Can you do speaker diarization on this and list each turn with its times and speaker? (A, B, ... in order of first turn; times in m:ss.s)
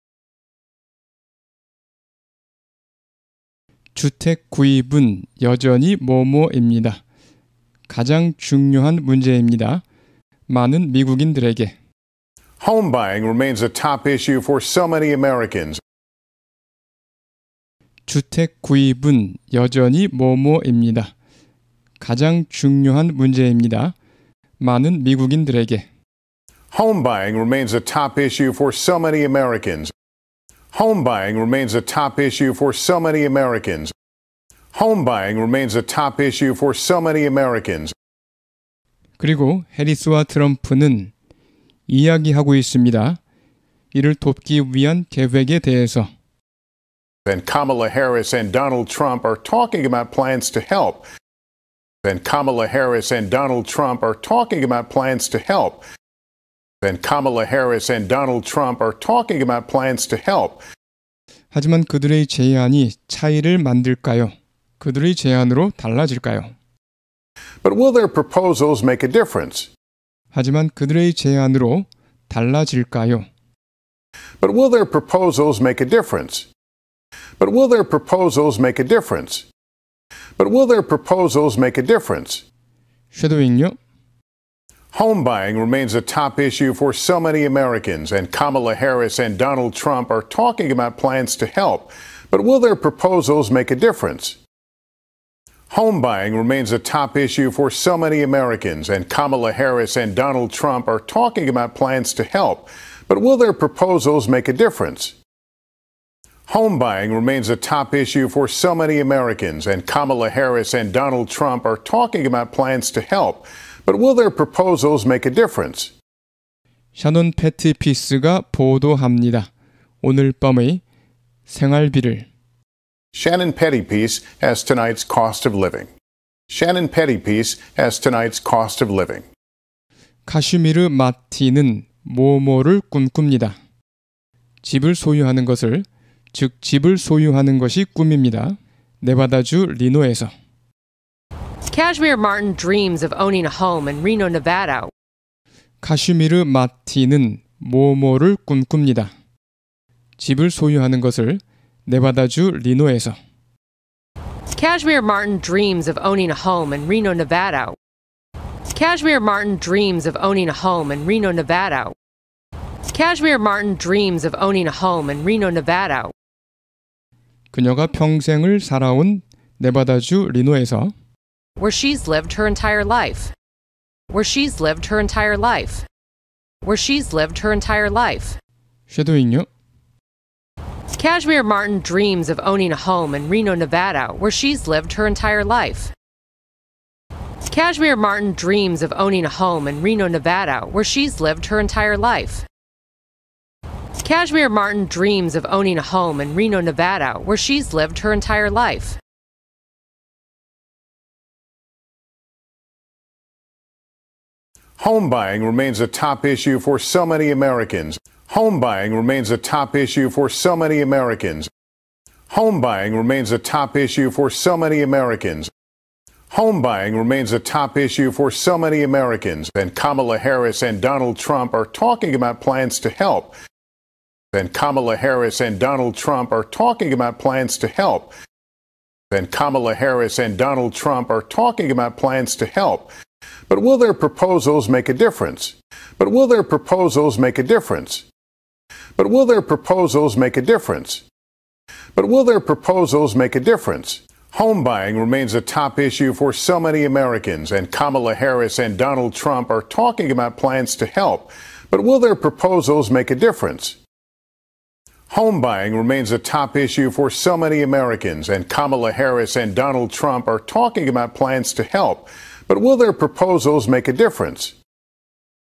0:03.9-0:07.0 A
0:07.9-0:09.8 A
0:10.5-0:11.7 A
0:12.6-0:15.8 B
0:18.0-0:21.1 A
0:22.0-0:23.9 A
0:24.6-0:25.8 A
0:26.7-0:29.9 B
0:30.7-0:33.9 B
0:34.7-0:37.9 B
0:39.2-0:41.1 A
0:41.9-0:43.2 A
0:43.9-0:46.1 A
0:47.2-0:51.0 B
0:52.0-0:55.8 B
0:56.8-1:00.6 B
1:01.5-1:06.5 A
1:07.6-1:09.7 B
1:10.3-1:13.2 A
1:14.4-1:16.5 B
1:17.4-1:19.5 B
1:20.4-1:22.4 B
1:23.1-1:23.8 A
1:24.9-1:34.4 B
1:35.7-1:45.2 B
1:46.5-1:55.9 B
1:56.9-1:59.5 A
2:00.0-2:00.8 A
2:01.5-2:02.2 A
2:03.1-2:05.9 B
2:06.5-2:09.2 B
2:10.2-2:13.6 A
2:14.6-2:20.3 A
2:21.7-2:24.9 C
2:25.8-2:29.1 A
2:30.2-2:33.2 A
2:34.5-2:37.8 C
2:38.7-2:41.9 C
2:42.9-2:46.1 C
2:47.5-2:50.9 A
2:51.6-2:53.3 C
2:54.1-2:55.9 C
2:56.6-2:58.4 C
2:58.9-2:59.5 A
3:00.9-3:05.9 C
3:07.5-3:12.4 C
3:14.0-3:19.0 C
3:24.8-3:31.5 B
3:32.3-3:35.5 B
3:36.3-3:43.3 B
3:44.3-3:48.1 B
3:49.1-3:52.9 B
3:53.5-3:58.0 B
3:59.0-4:01.0 B
4:01.9-4:13.8 B
4:15.1-4:24.5 B